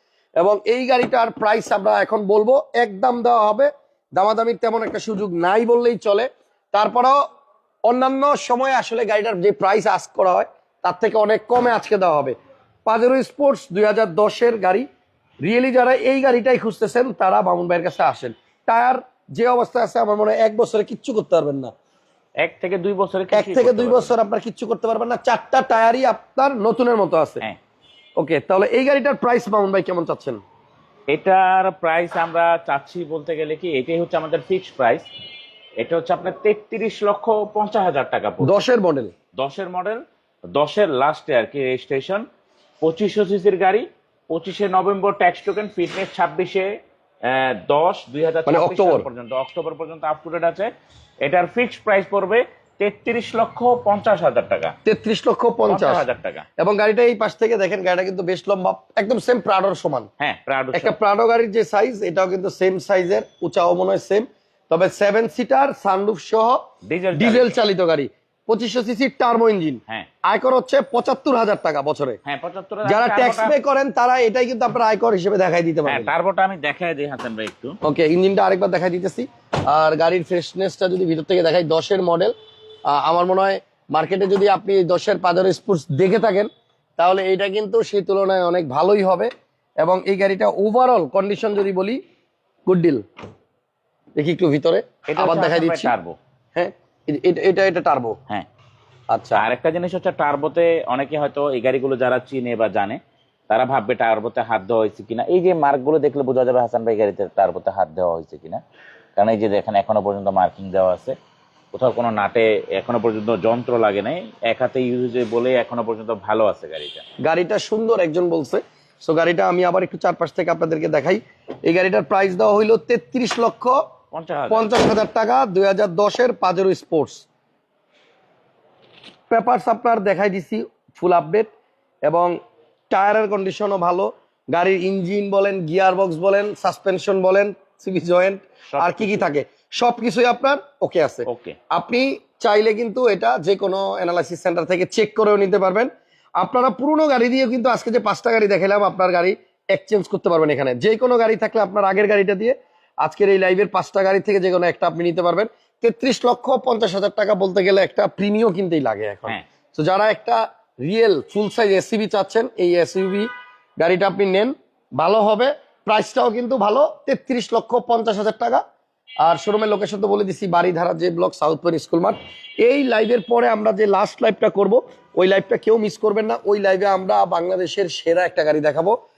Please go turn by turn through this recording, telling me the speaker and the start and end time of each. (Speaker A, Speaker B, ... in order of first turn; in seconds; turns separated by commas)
Speaker A: 0.4-7.2, Speaker A: 7.8-12.3, Speaker A: 12.9-14.9, Speaker A: 15.4-21.7, Speaker B: 22.4-24.1, Speaker A: 23.3-27.4, Speaker A: 28.2-30.4, Speaker B: 31.1-35.1, Speaker B: 35.8-38.5, Speaker A: 38.4-39.1, Speaker B: 39.4-42.2, Speaker B: 42.8-46.7, Speaker B: 47.2-50.7, Speaker A: 48.5-49.1, Speaker B: 51.2-54.8, Speaker A: 54.9-56.0, Speaker B: 55.7-56.5, Speaker A: 56.6-60.1, Speaker B: 60.2-61.0, Speaker A: 60.7-66.6, Speaker B: 66.8-67.6, Speaker A: 67.2-72.2, Speaker B: 72.2-73.5, Speaker A: 72.8-76.1, Speaker B: 75.9-77.8, Speaker A: 77.8-82.3, Speaker A: 82.9-89.3, Speaker A: 89.8-92.0, Speaker A: 92.7-93.0, Speaker A: 94.2-95.9, Speaker B: 95.1-96.2, Speaker A: 96.5-98.2, Speaker A: 99.1-99.4, Speaker B: 99.4-108.6, Speaker B: 109.2-111.2, Speaker B: 111.7-117.0, Speaker A: 117.2-123.8, Speaker B: 124.1-124.7, Speaker A: 124.5-127.3, Speaker A: 129.3-131.5, Speaker A: 132.1-132.3, Speaker A: 132.9-163.3, Speaker B: 138.7-139.3, Speaker B: 141.3-141.6, Speaker A: 163.8-168.6, Speaker A: 169.2-179.0